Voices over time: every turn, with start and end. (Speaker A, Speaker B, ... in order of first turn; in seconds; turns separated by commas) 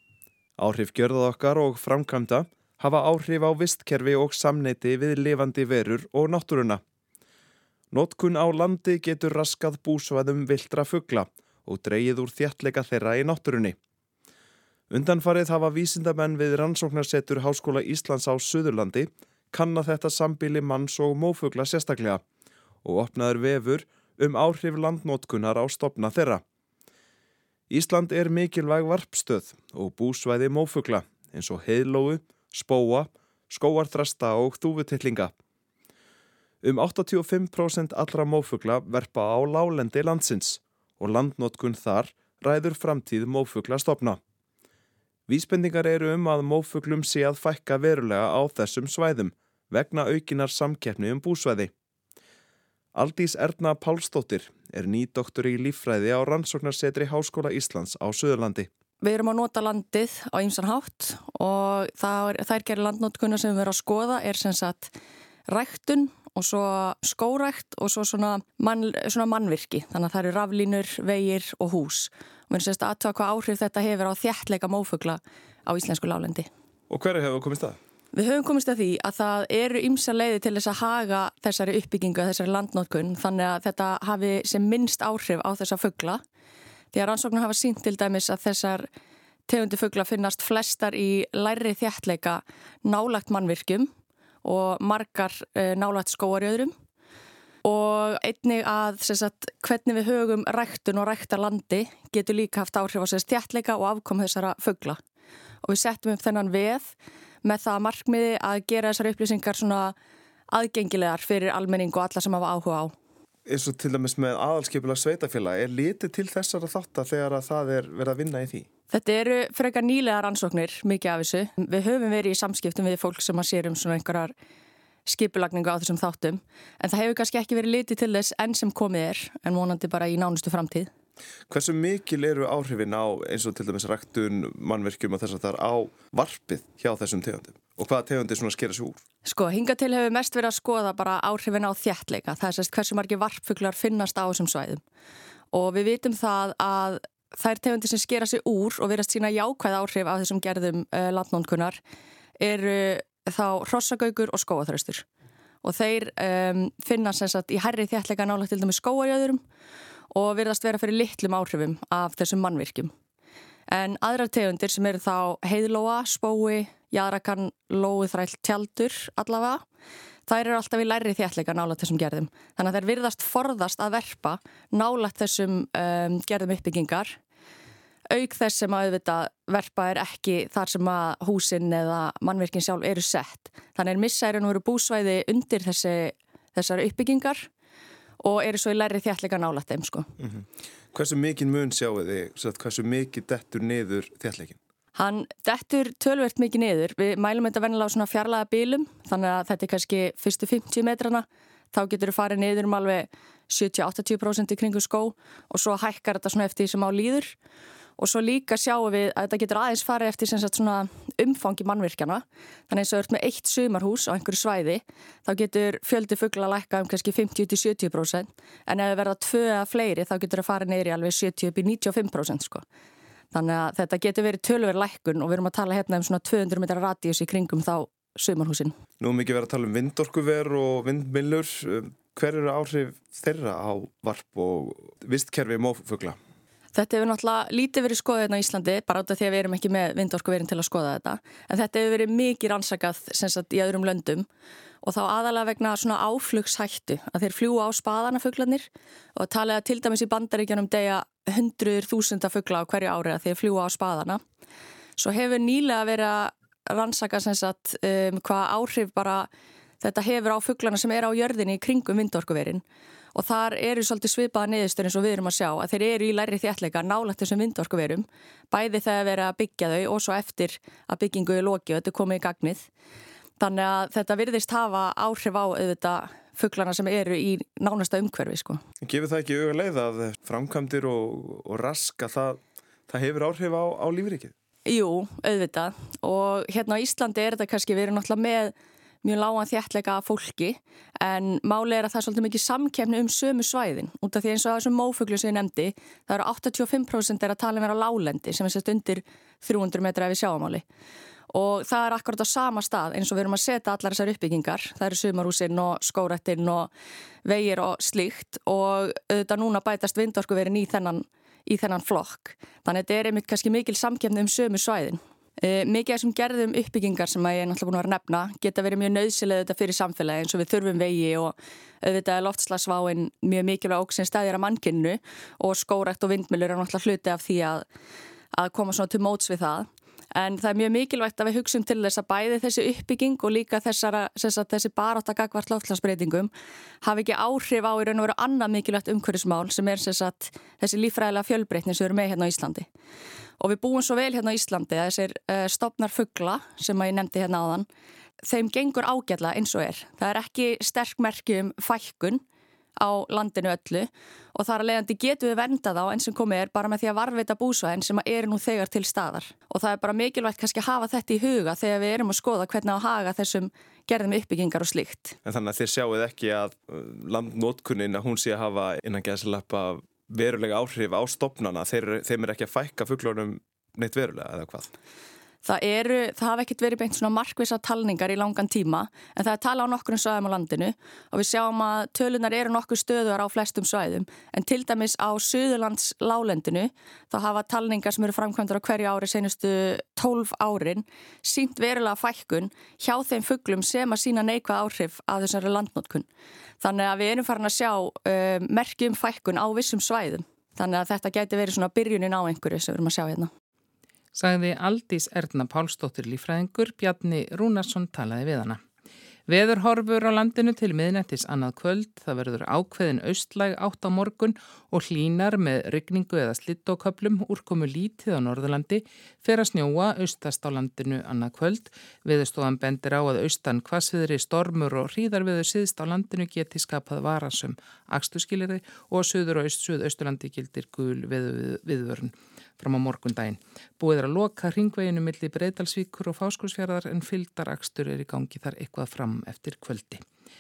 Speaker A: 0.6-6.8, Speaker A: 7.9-13.8, Speaker A: 14.9-22.2, Speaker A: 22.9-26.4, Speaker A: 27.7-35.3, Speaker A: 36.6-44.2, Speaker A: 45.3-51.7, Speaker A: 52.9-58.7, Speaker B: 59.0-64.9, Speaker B: 65.5-76.5, Speaker A: 76.9-77.8, Speaker B: 78.1-86.2, Speaker B: 86.9-88.9, Speaker B: 89.5-93.9, Speaker B: 94.4-96.7, Speaker B: 97.6-105.0, Speaker B: 105.6-109.9, Speaker B: 110.5-112.9, Speaker A: 113.5-118.7, Speaker B: 118.9-124.3, Speaker B: 125.1-130.9, Speaker A: 131.5-139.0, Speaker B: 139.2-144.8, Speaker B: 145.5-151.8, Speaker B: 152.4-155.1, Speaker B: 155.6-159.4, Speaker B: 160.1-162.9, Speaker B: 163.7-169.6, Speaker B: 170.3-177.2, Speaker B: 178.1-187.5, Speaker B: 188.2-190.1, Speaker A: 190.2-194.6, Speaker B: 194.9-207.4, Speaker B: 208.0-222.6, Speaker B: 223.3-228.7, Speaker A: 229.0-236.2, Speaker B: 236.7-244.3, Speaker B: 244.8-254.2, Speaker B: 255.0-259.3, Speaker B: 259.8-262.6, Speaker B: 263.1-272.7, Speaker B: 273.4-278.6, Speaker A: 278.8-284.3, Speaker B: 284.6-300.6, Speaker B: 301.3-306.7, Speaker B: 307.2-327.6, Speaker B: 328.3-336.3, Speaker B: 336.8-342.7, Speaker B: 343.4-347.7, Speaker B: 348.2-352.2, Speaker B: 352.8-365.2, Speaker A: 365.2-374.7, Speaker B: 375.4-396.1, Speaker B: 396.6-403.3, Speaker C: 404.1-408.6, Speaker C: 409.3-440.0